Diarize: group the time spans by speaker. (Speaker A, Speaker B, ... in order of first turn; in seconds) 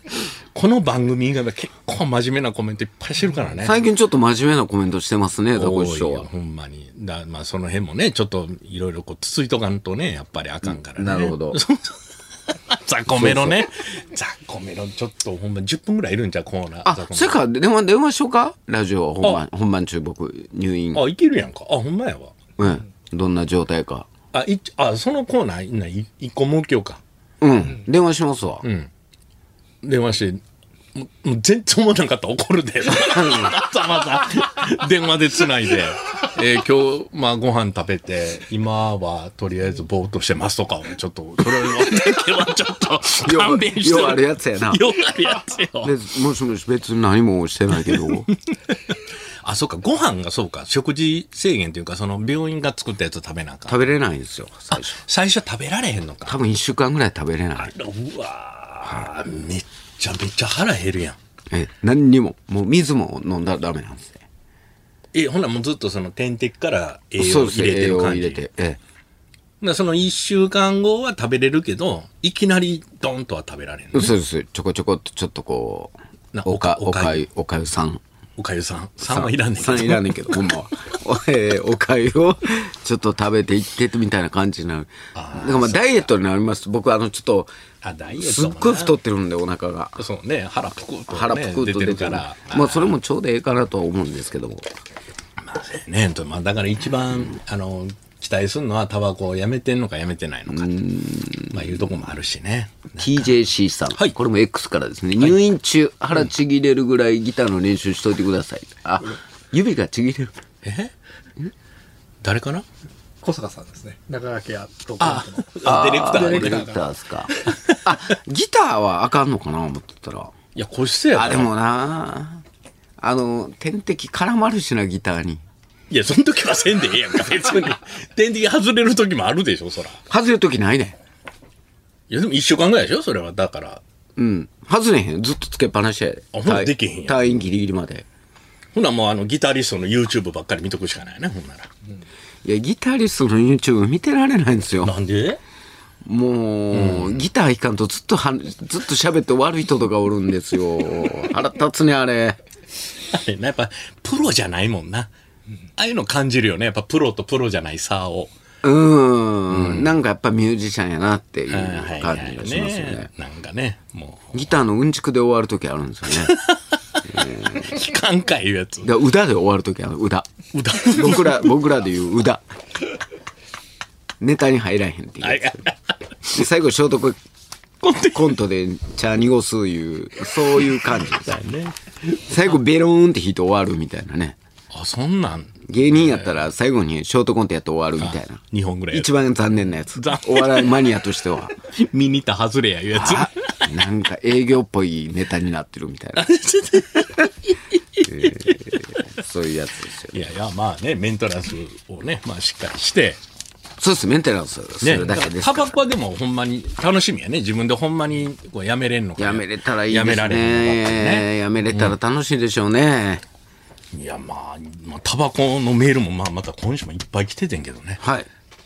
Speaker A: 0.5-3.8, 5.5-17.4, 20.9-22.3, 24.3-27.0, 28.6-28.9, 29.8-30.4, 30.9-45.9, 47.7-53.8, 54.7-56.4, 57.6-61.2, 65.1-68.5, 69.6-74.1, 76.3-77.2, 78.4-80.4, 85.1-86.0, 87.8-89.0, 90.0-92.9, 95.4-100.7, 101.5-103.3, 110.6-110.9, 112.2-112.7, 115.0-116.8, 117.5-117.8, 120.5-121.5, 125.9-130.0, 132.1-133.8, 136.3-137.2, 138.7-141.7, 144.8-145.4, 146.7-147.2, 153.0-155.1, 155.8-158.3, 159.5-159.9, 161.5-164.5, 166.1-168.9, 170.5-171.5, 175.2-175.9, 177.8-178.4, 180.7-181.8, 184.7-186.3, 188.0-189.1, 189.9-190.9, 191.7-193.3, 196.2-198.9, 200.1-203.2, 204.8-211.9, 213.9-218.0
Speaker B: 3.6-6.3, 10.7-11.6, 13.1-13.6, 16.9-21.0, 22.6-24.1, 27.4-28.7, 33.1-33.5, 43.2-44.8, 45.8-48.3, 53.7-55.0, 56.2-57.7, 61.5-64.2, 67.2-68.8, 73.9-75.9, 76.4-78.0, 79.0-87.5, 88.2-90.0, 91.1-94.7, 100.5-101.5, 103.0-110.3, 115.6-120.3, 121.1-122.4, 123.0-125.4, 130.1-131.0, 134.2-138.1, 142.4-144.9, 146.0-152.4, 158.6-163.1, 164.3-166.4, 167.0-167.7, 168.8-170.3, 170.8-172.4, 174.2-175.7, 176.3-177.2, 178.1-181.3, 182.2-184.3, 185.6-188.4, 188.9-191.6, 192.9-196.3, 198.0-200.2, 203.8-205.8, 209.2-213.2, 218.0-218.3
Speaker C: 113.2-116.8